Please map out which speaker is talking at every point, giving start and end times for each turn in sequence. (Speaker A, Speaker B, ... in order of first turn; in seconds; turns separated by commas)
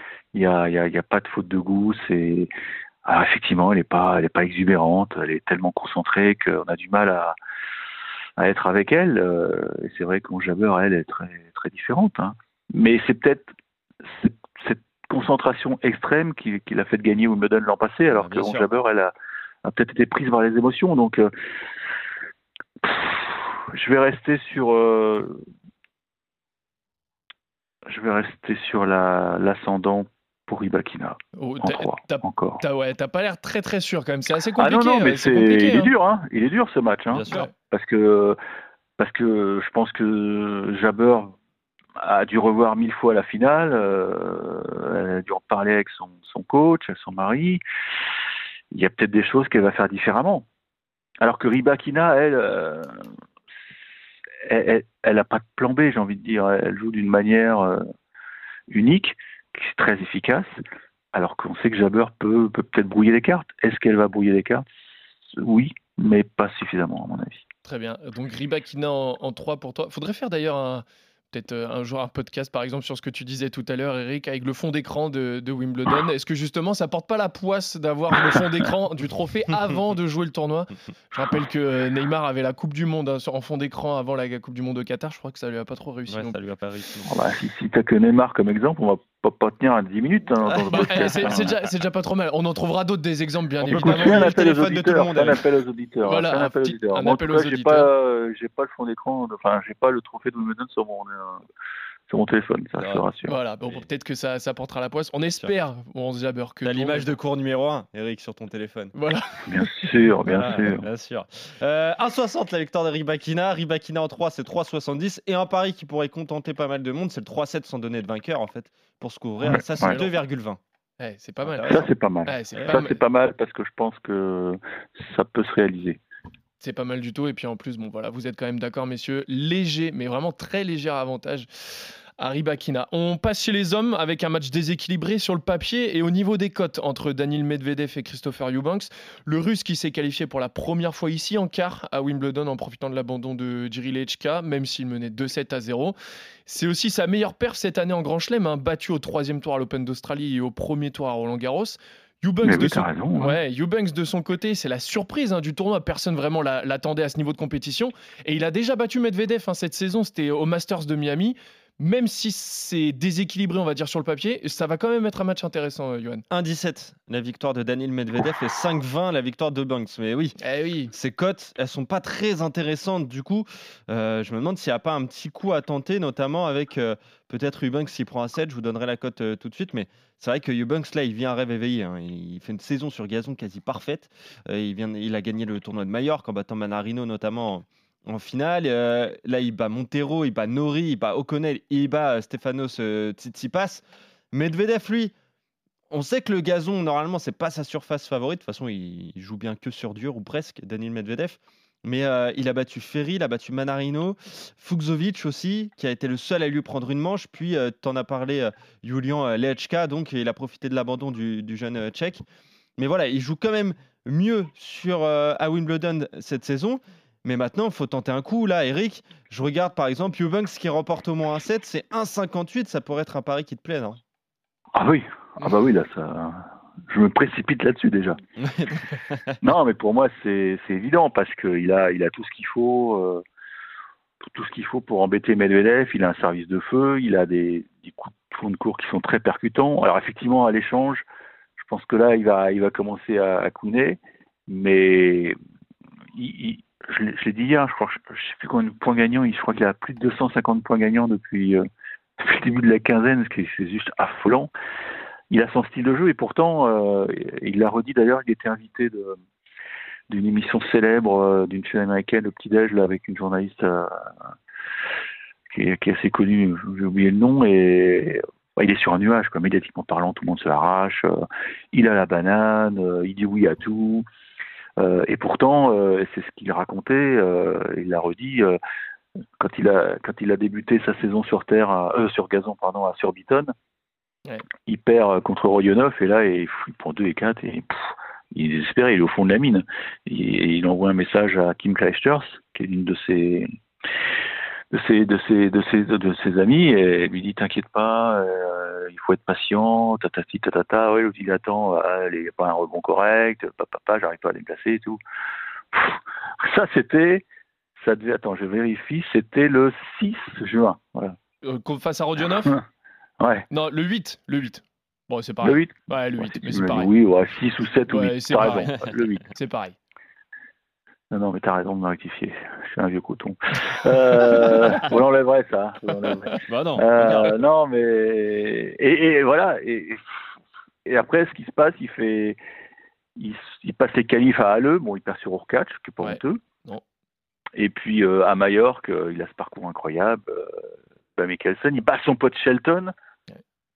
Speaker A: 0.3-2.5, Speaker A: 3.0-7.3, Speaker A: 8.4-13.5, Speaker A: 14.0-21.3, Speaker B: 18.1-18.7, Speaker A: 22.8-25.4, Speaker A: 27.9-32.6, Speaker C: 31.4-35.9, Speaker A: 34.6-38.4, Speaker B: 37.1-37.5, Speaker A: 39.0-41.3, Speaker A: 42.0-47.6, Speaker A: 48.7-50.4, Speaker A: 51.2-53.1, Speaker A: 54.4-57.8, Speaker A: 58.7-60.6, Speaker A: 61.1-64.6, Speaker A: 65.3-67.4, Speaker C: 67.6-86.4, Speaker B: 86.1-87.2, Speaker A: 87.1-91.5, Speaker B: 90.4-91.5, Speaker C: 90.7-94.3, Speaker A: 93.7-101.4, Speaker B: 93.7-95.4, Speaker C: 96.0-97.9, Speaker A: 102.1-103.3, Speaker B: 102.8-103.1, Speaker C: 103.2-107.1, Speaker B: 106.6-108.9, Speaker C: 109.0-109.9, Speaker A: 109.5-110.8, Speaker B: 110.3-120.6, Speaker A: 119.4-120.0, Speaker C: 119.9-120.2, Speaker C: 121.0-123.0, Speaker A: 121.6-126.0, Speaker C: 126.6-145.9, Speaker C: 146.5-166.2, Speaker A: 152.4-153.4, Speaker B: 166.3-170.4, Speaker C: 170.4-170.9, Speaker B: 170.9-195.1, Speaker B: 195.9-212.2, Speaker B: 212.8-224.0, Speaker A: 224.7-228.2, Speaker B: 228.4-229.4, Speaker A: 229.4-233.2, Speaker A: 234.2-241.0, Speaker A: 241.6-245.3, Speaker A: 246.1-251.6, Speaker A: 252.2-254.5, Speaker A: 255.3-259.2, Speaker A: 260.1-263.9, Speaker A: 265.5-274.1, Speaker A: 274.8-278.6, Speaker A: 279.4-283.5, Speaker A: 284.6-293.5, Speaker A: 294.7-305.0, Speaker A: 305.7-307.2, Speaker A: 307.8-311.1, Speaker C: 311.4-312.6, Speaker A: 313.2-313.4, Speaker C: 313.5-316.9, Speaker A: 315.4-319.2, Speaker C: 317.9-318.7, Speaker B: 318.4-318.9, Speaker C: 319.3-319.8, Speaker A: 321.1-330.0, Speaker B: 326.4-327.4, Speaker A: 330.8-332.4, Speaker A: 333.1-336.4, Speaker C: 336.0-336.8, Speaker A: 337.6-342.9